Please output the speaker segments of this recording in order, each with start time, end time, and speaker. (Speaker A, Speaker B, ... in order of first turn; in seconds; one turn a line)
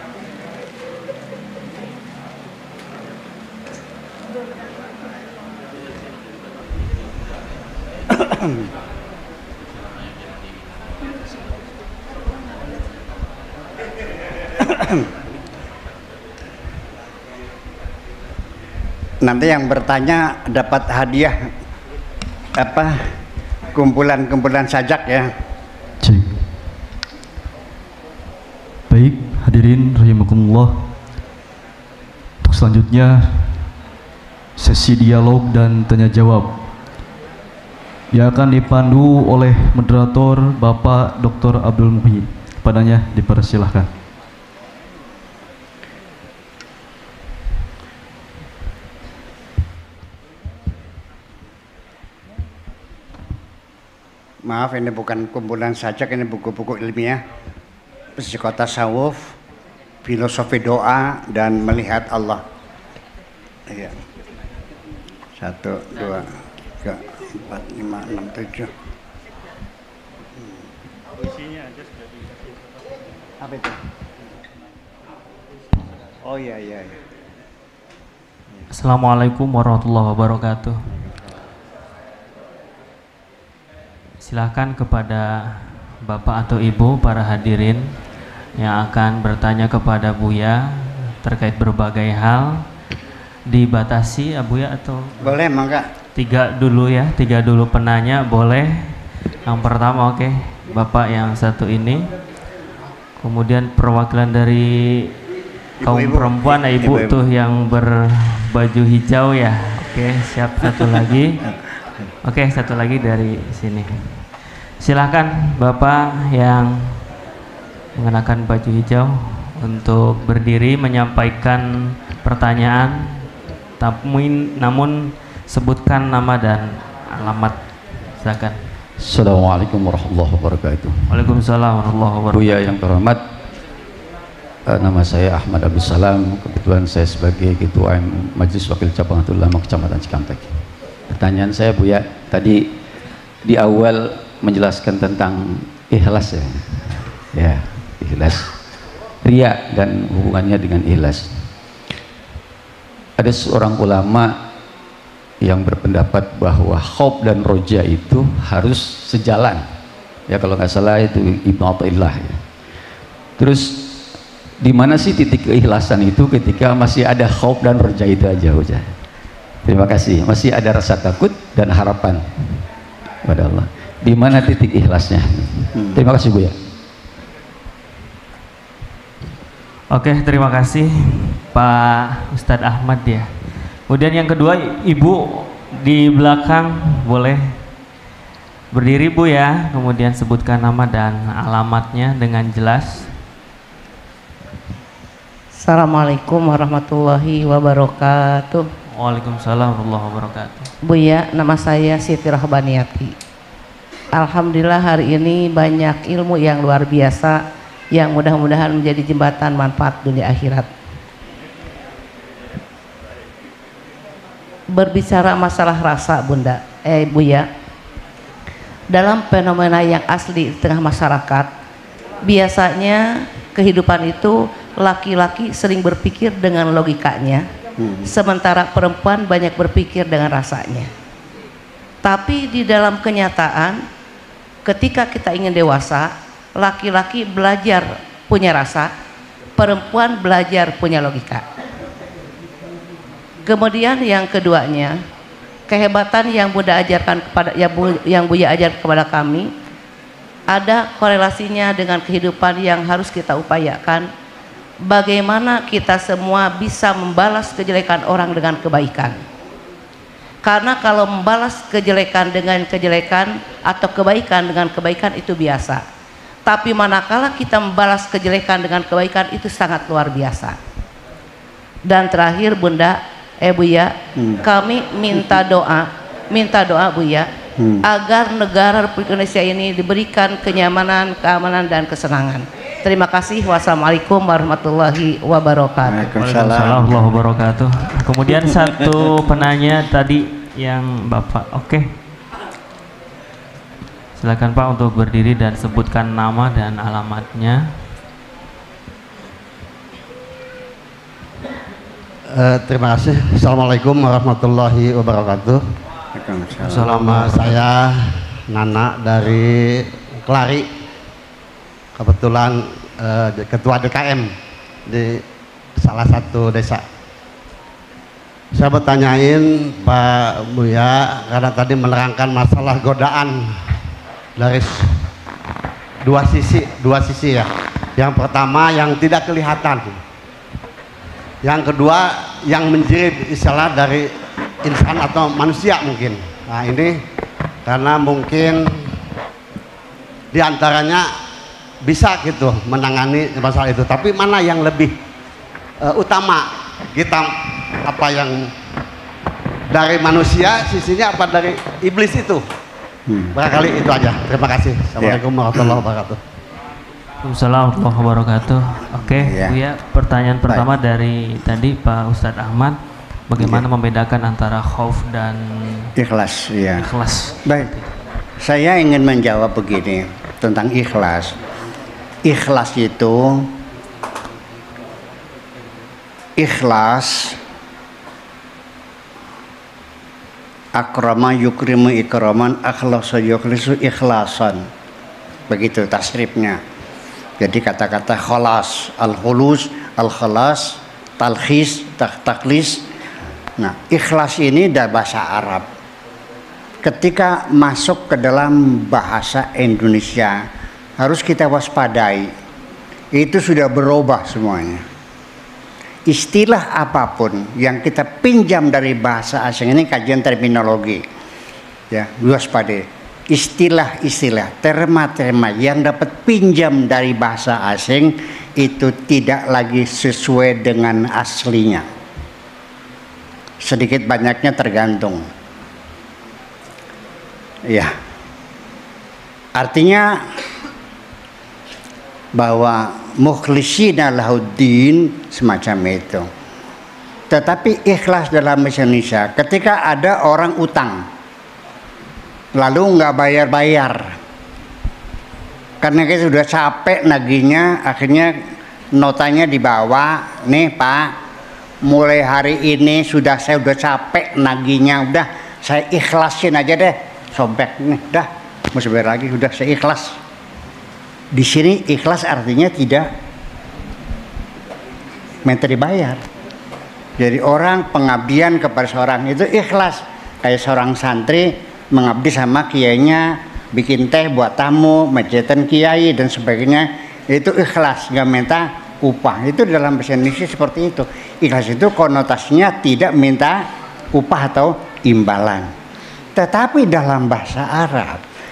Speaker A: 19.2-21.4
Speaker A: 22.6-23.0
Speaker A: 23.7-25.3
Speaker B: 26.0-26.5
Speaker B: 28.9-30.9
Speaker B: 32.4-33.7
Speaker B: 34.6-36.7
Speaker B: 38.1-43.9
Speaker A: 54.5-57.2
Speaker A: 58.2-59.3
Speaker A: 60.0-62.4
Speaker A: 63.7-64.0
Speaker A: 65.4-66.3
Speaker A: 66.8-68.7
Speaker A: 73.4-73.8
Speaker A: 76.2-76.9
Speaker C: 78.7-80.9
Speaker C: 84.2-88.0
Speaker C: 88.6-92.6
Speaker C: 93.5-95.3
Speaker A: 95.2-95.9
Speaker C: 96.1-99.0
Speaker C: 99.5-102.1
Speaker C: 103.2-105.1
Speaker A: 105.8-107.2
Speaker C: 105.8-111.4
Speaker C: 112.2-114.2
Speaker C: 114.8-117.0
Speaker C: 118.0-123.3
Speaker C: 123.8-127.6
Speaker C: 128.2-128.6
Speaker D: 129.0-131.2
Speaker C: 131.1-132.7
Speaker D: 132.3-133.2
Speaker D: 134.7-140.6
Speaker D: 141.1-142.8
Speaker D: 143.4-148.6
Speaker D: 149.2-151.5
Speaker D: 153.2-154.5
Speaker D: 155.4-159.7
Speaker D: 160.3-162.4
Speaker D: 163.4-168.9
Speaker D: 169.6-172.6
Speaker D: 173.2-176.6
Speaker C: 179.9-183.3
Speaker C: 183.9-187.6
Speaker C: 188.7-193.1
Speaker E: 195.6-198.7
Speaker C: 198.9-200.7
Speaker E: 200.8-203.1
Speaker E: 204.1-207.4
Speaker E: 207.9-210.7
Speaker E: 214.7-217.5
Speaker E: 218.9-221.5
Speaker E: 222.2-227.4
Speaker A: 227.8-228.1
Speaker E: 228.1-230.9
Speaker E: 232.0-233.8
Speaker E: 234.6-238.9
Speaker E: 239.6-241.4
Speaker E: 243.4-245.0
Speaker E: 245.7-249.5
Speaker E: 250.5-254.1
Speaker E: 254.8-259.2
Speaker E: 260.4-265.8
Speaker E: 266.4-270.6
Speaker E: 271.9-277.3
Speaker A: 274.2-274.4
Speaker A: 277.6-277.9
Speaker E: 277.8-286.1
Speaker A: 285.9-287.1
Speaker C: 286.2-291.9
Speaker C: 294.2-297.7
Speaker F: 302.3-305.6
Speaker A: 306.1-306.9
Speaker C: 306.6-307.6
Speaker F: 306.7-310.7
Speaker F: 311.9-314.3
Speaker F: 314.9-315.2
Speaker F: 315.8-316.8
Speaker F: 318.5-323.6
Speaker F: 324.4-325.1
Speaker F: 326.0-330.0
Speaker F: 331.4-337.0
Speaker F: 337.7-338.8
Speaker F: 340.3-341.1
Speaker F: 341.8-344.9
Speaker F: 345.8-348.5
Speaker F: 349.7-352.4
Speaker A: 353.1-353.4
Speaker F: 353.3-356.2
Speaker A: 355.0-355.8
Speaker C: 357.2-362.8
Speaker A: 359.0-359.6
Speaker C: 363.3-365.9
Speaker A: 363.4-363.6
Speaker A: 366.0-366.9
Speaker C: 366.8-367.9
Speaker A: 367.4-367.7
Speaker A: 368.4-371.4
Speaker A: 372.2-373.5
Speaker A: 376.4-377.4
Speaker A: 380.7-384.7
Speaker A: 385.5-386.6
Speaker A: 387.4-392.8
Speaker A: 393.6-395.6
Speaker A: 396.8-400.4
Speaker A: 401.0-402.3
Speaker A: 403.1-404.9
Speaker A: 406.1-411.1
Speaker A: 411.9-421.9
Speaker A: 423.6-425.3
Speaker A: 427.7-427.9
Speaker A: 429.6-430.2
Speaker A: 432.4-436.3
Speaker A: 437.3-441.1
Speaker A: 442.6-444.1
Speaker A: 445.8-448.4
Speaker A: 448.9-451.1
Speaker A: 451.9-460.2
Speaker A: 461.3-463.1
Speaker A: 465.4-466.2
Speaker A: 467.2-485.7
Speaker A: 486.4-488.2